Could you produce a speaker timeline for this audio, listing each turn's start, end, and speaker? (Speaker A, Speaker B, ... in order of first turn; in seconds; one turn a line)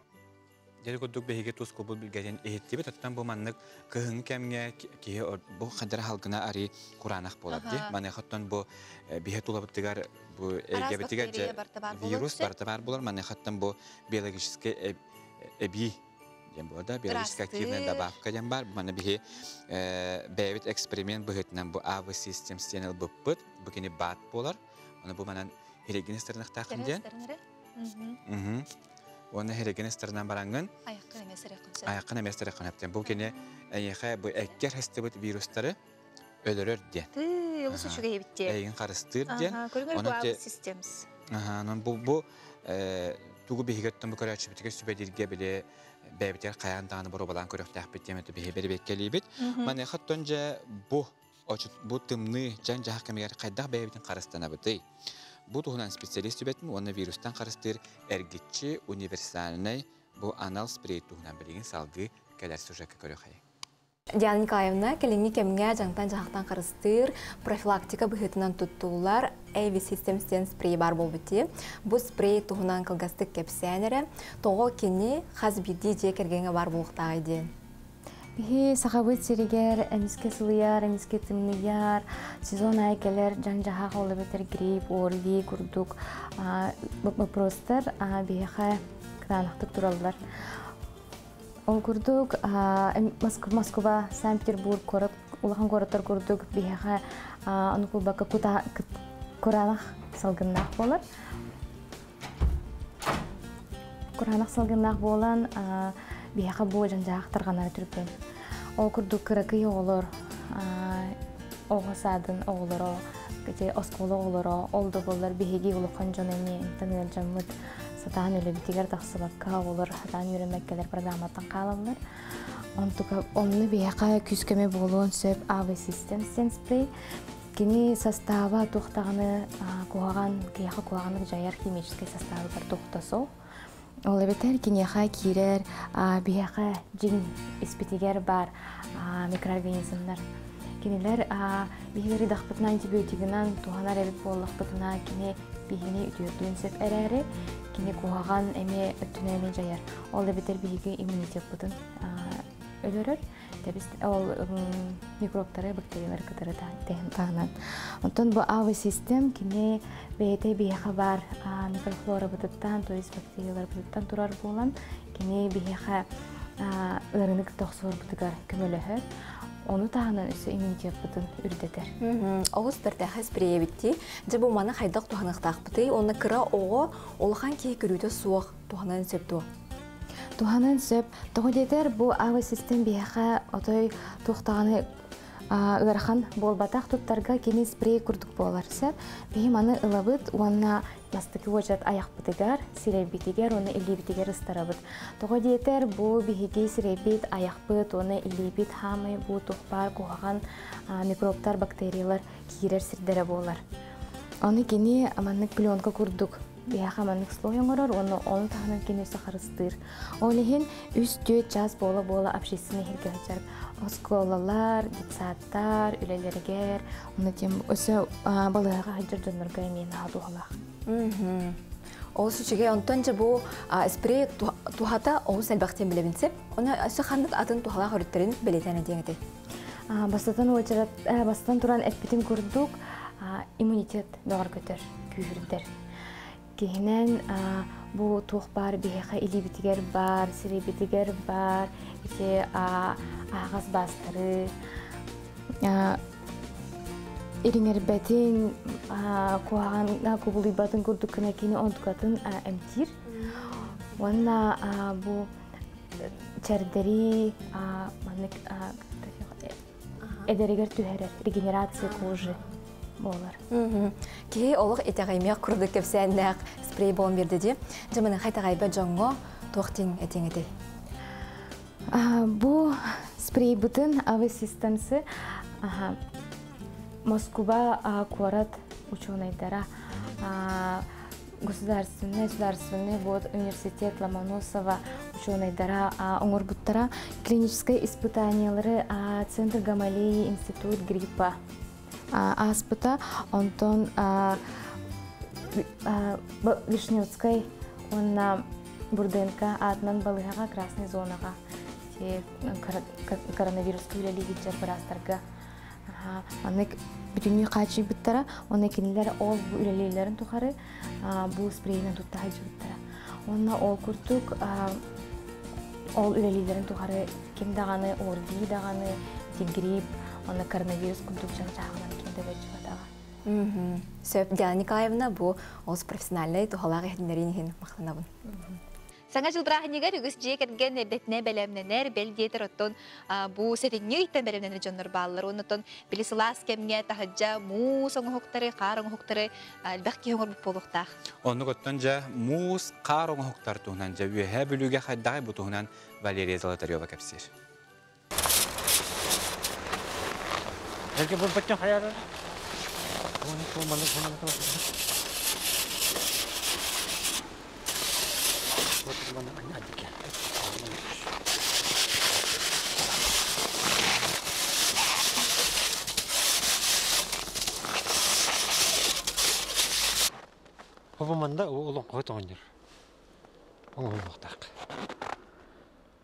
Speaker A: 0.8-16.0
Speaker B: 7.5-7.9
Speaker B: 10.7-12.5
Speaker A: 16.5-27.0
Speaker B: 17.1-18.1
Speaker B: 26.7-28.2
Speaker A: 28.2-28.6
Speaker A: 29.3-30.7
Speaker B: 30.9-31.9
Speaker A: 31.9-35.8
Speaker A: 36.4-37.1
Speaker B: 37.1-38.6
Speaker A: 37.7-40.4
Speaker B: 39.3-41.0
Speaker A: 41.3-54.8
Speaker B: 49.4-49.7
Speaker A: 55.5-63.4
Speaker C: 64.2-77.5
Speaker D: 78.4-90.2
Speaker D: 91.7-98.9
Speaker D: 99.4-101.0
Speaker D: 104.2-108.1
Speaker D: 108.8-111.2
Speaker D: 111.7-122.0
Speaker D: 122.8-126.9
Speaker D: 127.5-133.3
Speaker D: 134.1-140.2
Speaker D: 140.8-157.5
Speaker D: 158.0-166.1
Speaker D: 166.6-169.0
Speaker D: 169.7-171.9
Speaker C: 172.0-179.4
Speaker D: 180.4-184.8
Speaker D: 185.5-203.6
Speaker D: 204.4-220.6
Speaker C: 220.9-221.6
Speaker C: 222.1-229.2
Speaker D: 229.9-235.7
Speaker D: 236.6-244.5
Speaker D: 245.6-246.0
Speaker D: 247.4-252.9
Speaker D: 254.0-255.3
Speaker D: 256.0-259.5
Speaker D: 260.2-262.4
Speaker D: 263.0-263.4
Speaker C: 263.5-270.5
Speaker D: 271.9-275.0
Speaker D: 275.6-276.0
Speaker D: 277.1-279.7
Speaker D: 280.2-280.9
Speaker D: 281.4-291.4
Speaker D: 292.1-294.4
Speaker D: 295.5-301.4
Speaker D: 301.9-305.2
Speaker D: 305.9-314.8
Speaker D: 316.0-322.9
Speaker C: 323.2-328.1
Speaker B: 329.1-340.9
Speaker A: 341.2-347.3
Speaker E: 350.9-352.0
Speaker E: 353.2-354.6
Speaker E: 358.8-361.1
Speaker E: 371.0-372.4
Speaker E: 373.8-374.5